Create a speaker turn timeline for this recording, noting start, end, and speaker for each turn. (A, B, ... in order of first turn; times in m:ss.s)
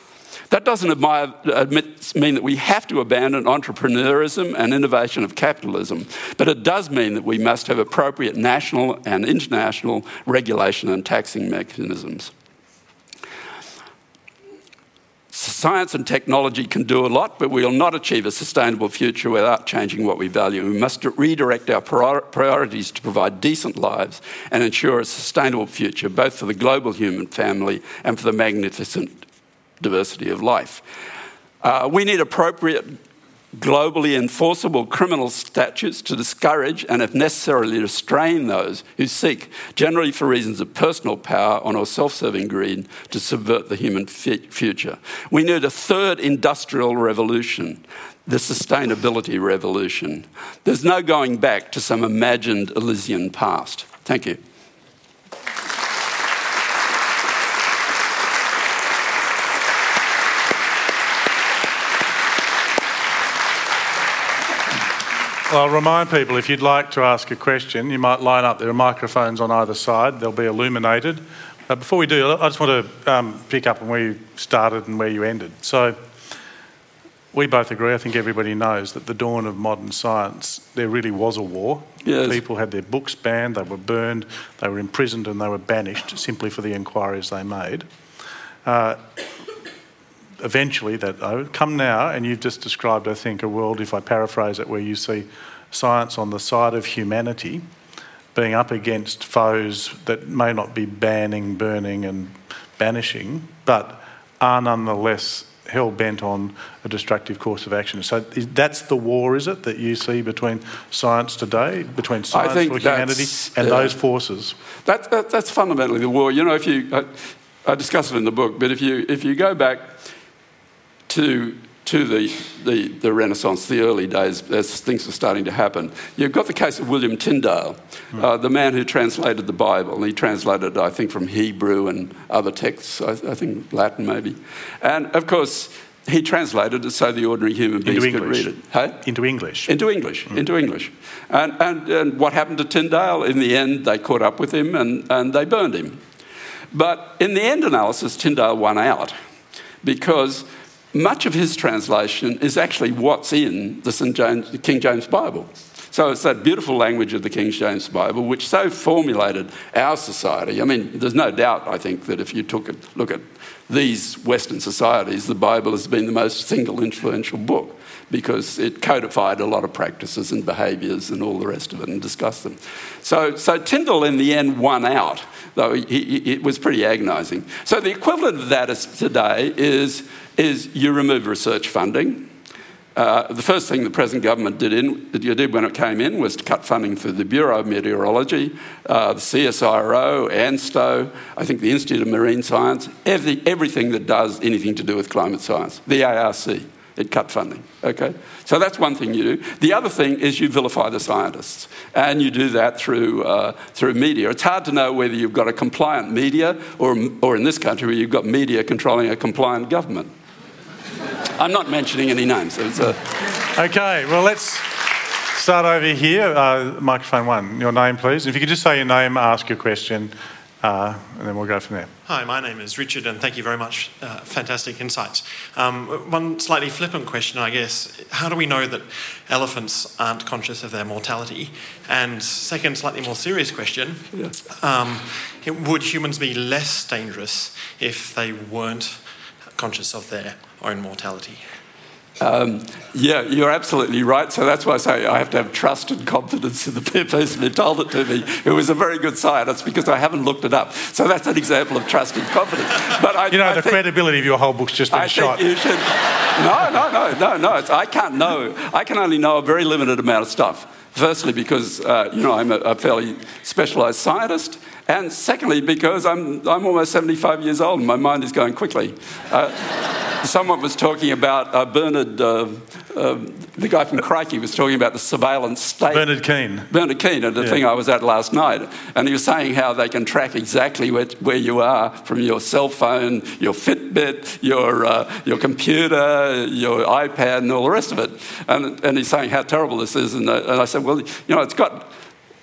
0:00.5-0:12.3 A
0:15.3-0:29.2 A
0:29.8-0:30.8 A
0:31.6-0:33.0 A
0:33.5-0:54.4 A
1:05.5-1:16.0 B
1:17.3-1:27.9 B
1:22.0-1:22.4 A
1:28.6-1:29.0 B
1:30.4-1:37.7 B
1:38.3-1:54.6 B
1:52.3-1:53.9 A
1:54.8-1:57.1 A
1:57.6-1:59.9 A
2:01.1-2:19.0 A
2:17.8-2:19.7 B
2:19.7-2:26.0 A
2:26.7-2:29.2 A
2:29.8-3:02.3 A
3:03.0-3:30.1 A
3:31.4-3:33.1 A
3:33.5-3:41.9 B
3:42.1-4:01.4 C
4:02.2-4:13.8 A
4:13.3-4:15.4 B
4:14.9-4:36.1 A
4:35.9-4:36.7 B
4:36.7-4:51.9 A